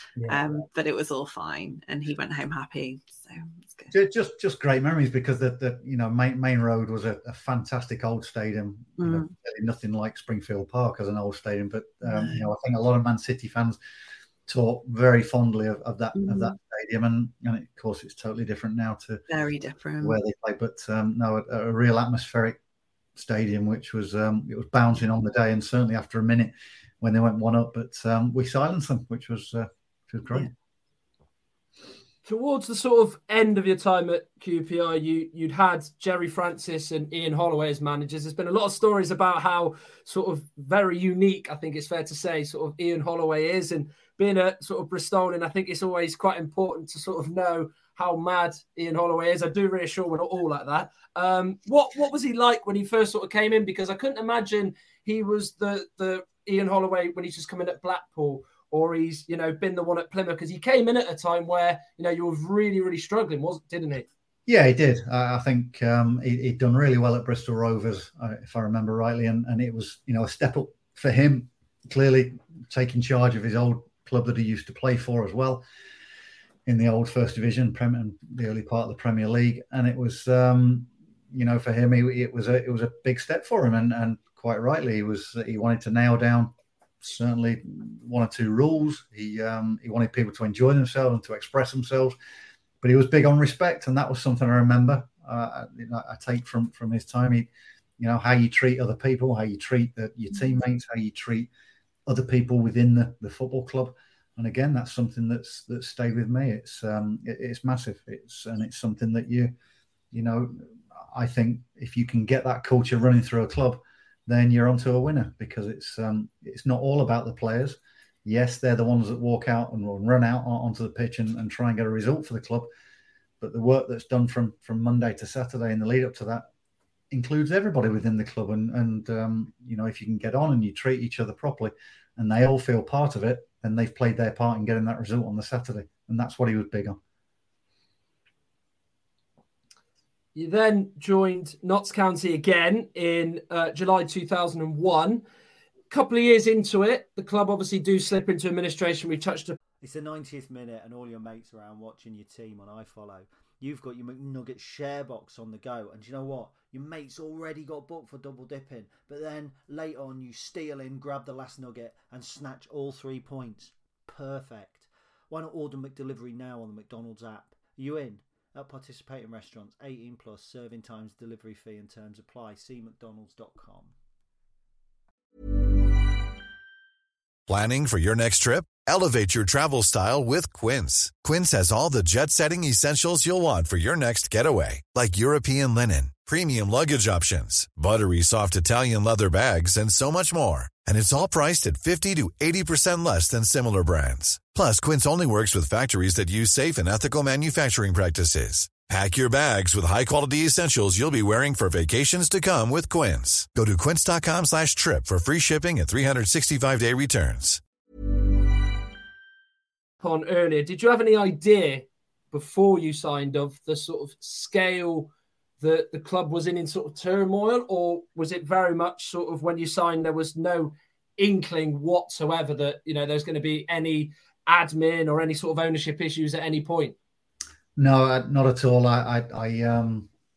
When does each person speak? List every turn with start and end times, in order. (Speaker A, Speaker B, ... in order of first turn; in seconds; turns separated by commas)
Speaker A: 0.2-0.4, Speaker B: 0.3-3.9, Speaker A: 3.9-13.8, Speaker B: 9.0-9.3, Speaker B: 12.0-12.5, Speaker A: 14.5-19.2, Speaker B: 16.2-16.5, Speaker B: 19.3-20.2, Speaker A: 20.0-22.6, Speaker A: 23.2-30.5, Speaker C: 32.2-64.1, Speaker A: 64.5-75.7, Speaker A: 76.7-92.2, Speaker A: 92.8-101.5, Speaker A: 102.1-109.5, Speaker A: 110.1-122.7, Speaker A: 123.4-126.5, Speaker A: 127.1-137.0, Speaker C: 140.3-145.2, Speaker C: 145.9-149.6, Speaker D: 149.8-173.9, Speaker E: 177.5-207.6, Speaker C: 210.0-226.9, Speaker A: 227.8-230.1